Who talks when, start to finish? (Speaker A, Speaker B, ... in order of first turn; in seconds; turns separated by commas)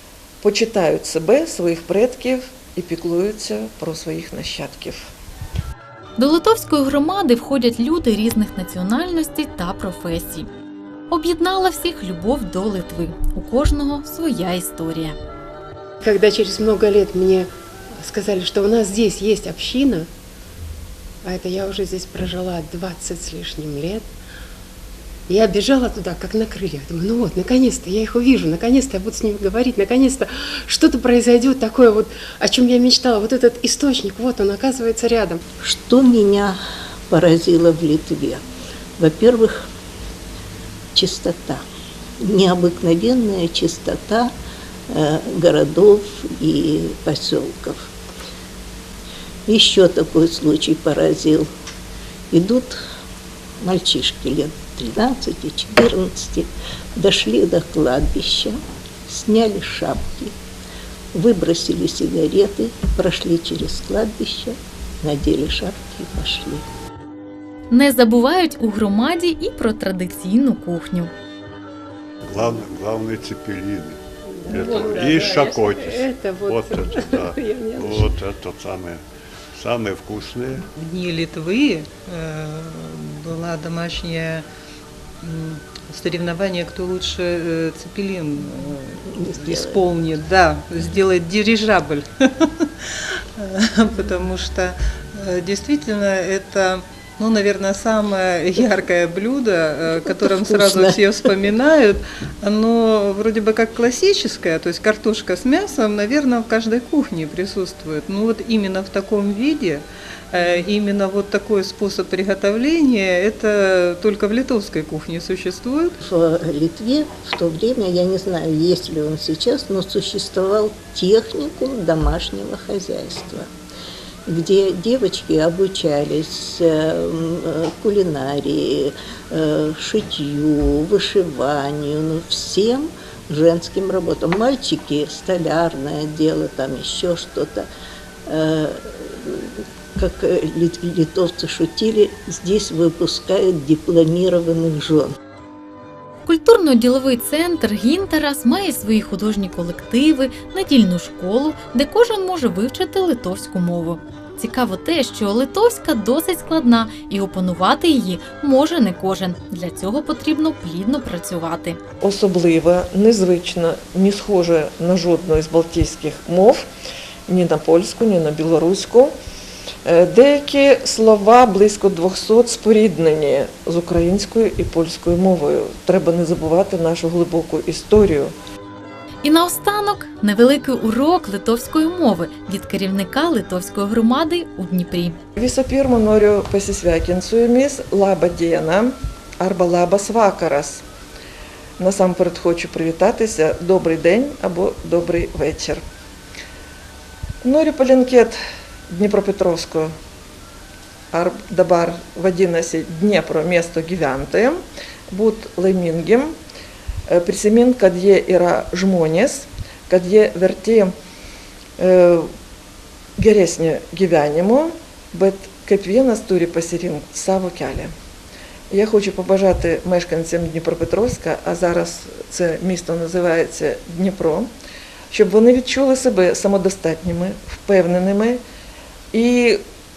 Speaker A: 0.4-5.1, Speaker B: 6.2-10.5, Speaker B: 11.1-15.2, Speaker C: 16.0-20.1, Speaker C: 21.2-24.1, Speaker C: 25.3-35.4, Speaker D: 35.6-36.6, Speaker D: 37.1-38.4, Speaker D: 39.0-39.7, Speaker D: 41.0-41.6, Speaker D: 42.2-44.3, Speaker D: 44.9-47.9, Speaker D: 49.5-51.5, Speaker D: 52.3-52.8, Speaker D: 53.6-60.3, Speaker D: 61.1-66.7, Speaker B: 67.7-71.1, Speaker E: 72.2-80.7, Speaker C: 74.3-78.2, Speaker F: 80.6-84.5, Speaker F: 85.2-92.7, Speaker D: 89.1-89.8, Speaker F: 93.4-116.0, Speaker D: 99.9-101.5, Speaker D: 116.0-123.5, Speaker D: 124.3-137.7, Speaker D: 138.3-145.2, Speaker B: 146.3-161.8, Speaker A: 162.0-166.7, Speaker A: 167.3-169.2, Speaker A: 169.8-178.3, Speaker B: 179.2-185.2, Speaker A: 185.4-190.8, Speaker A: 191.8-195.8, Speaker A: 197.4-198.4, Speaker A: 198.9-199.9, Speaker A: 201.1-206.4, Speaker A: 207.1-210.9, Speaker A: 211.8-212.3, Speaker A: 213.2-217.9, Speaker A: 218.7-224.5, Speaker A: 225.1-228.4, Speaker A: 229.1-229.6